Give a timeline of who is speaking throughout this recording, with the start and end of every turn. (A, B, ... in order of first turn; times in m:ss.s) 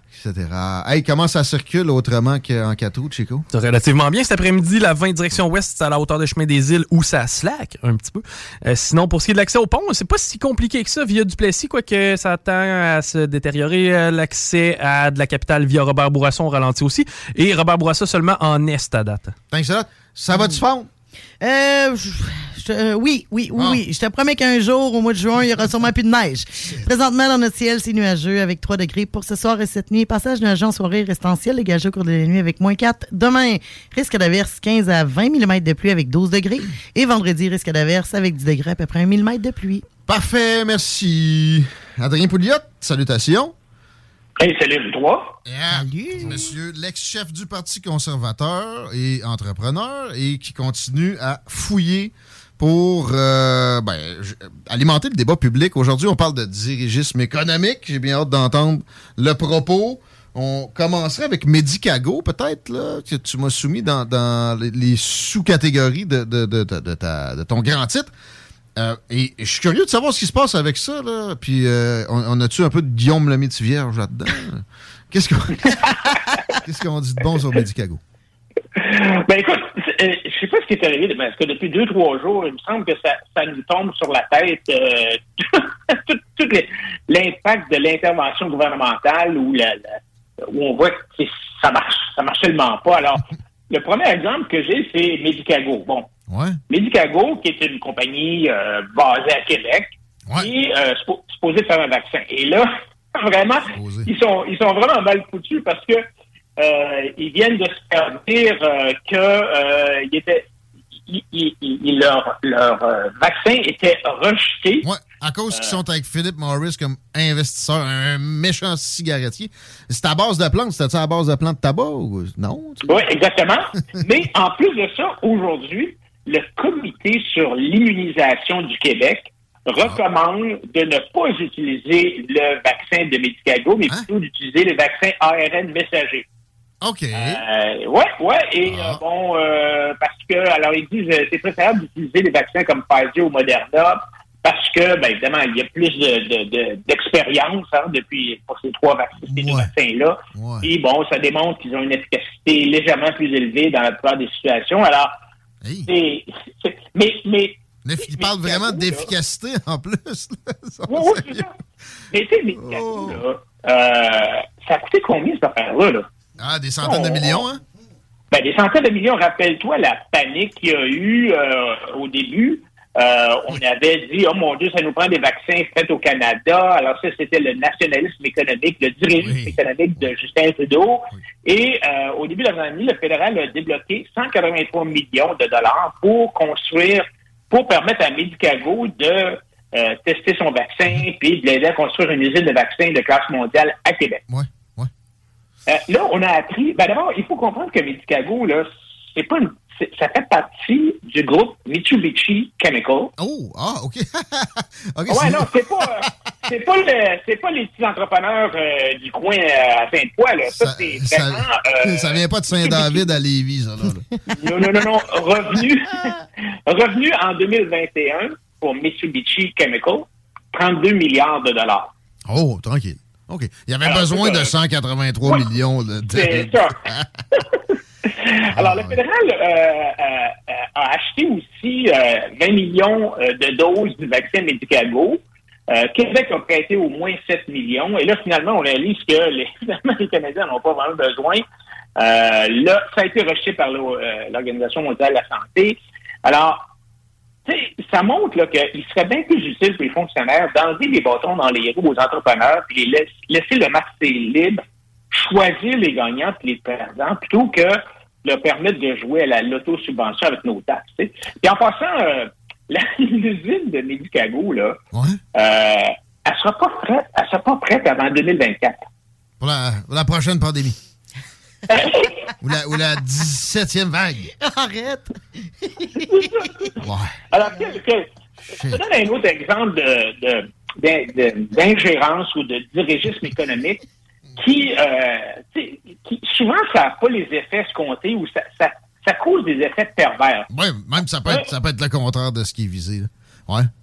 0:00.1-0:03.4 A
0:03.5-0:19.4 B
0:19.5-0:20.9 A
0:21.4-0:39.8 C
0:23.6-0:23.8 A
0:40.1-0:43.5 A
0:44.4-0:45.4 D
0:45.4-1:08.1 A
0:45.7-0:46.5 C
1:08.8-1:18.0 A
1:18.8-1:36.1 D
1:36.3-1:36.6 A
1:36.7-1:46.0 D
1:43.7-1:44.1 A
1:46.6-1:50.4 D
1:51.1-1:54.9 D
1:54.8-2:03.1 A
1:55.5-1:55.8 D
2:02.9-2:16.3 D
2:16.8-2:17.4 A
2:17.1-2:35.1 D
2:18.7-2:19.0 A
2:29.2-2:29.7 A
2:30.3-2:30.7 A
2:35.6-2:35.9 A
2:35.9-2:39.1 D
2:37.8-2:41.5 A
2:40.9-2:41.5 D
2:42.1-2:46.1 D
2:42.6-2:43.2 A
2:46.4-2:47.6 A
2:46.8-2:47.5 D
2:48.3-3:14.2 D
2:59.2-3:00.1 A
3:14.3-3:14.9 A
3:15.7-3:23.1 D
3:23.2-3:25.9 A
3:25.1-3:33.1 D
3:30.6-3:34.1 A
3:34.3-3:41.9 D
3:34.6-3:36.1 A
3:42.3-3:47.1 A
3:43.8-3:44.5 D
3:46.1-3:46.8 D
3:47.3-4:01.4 D
3:48.5-3:49.0 A
4:02.0-4:06.6 D
4:07.5-4:24.8 D
4:24.9-4:25.2 A
4:25.4-4:28.8 D
4:29.4-4:30.8 A
4:31.7-4:32.2 D
4:32.4-4:34.3 A
4:34.4-4:36.3 C
4:36.0-4:43.8 D
4:36.8-4:37.2 A
4:38.6-4:38.8 A
4:44.4-4:50.5 D
4:50.5-4:53.7 A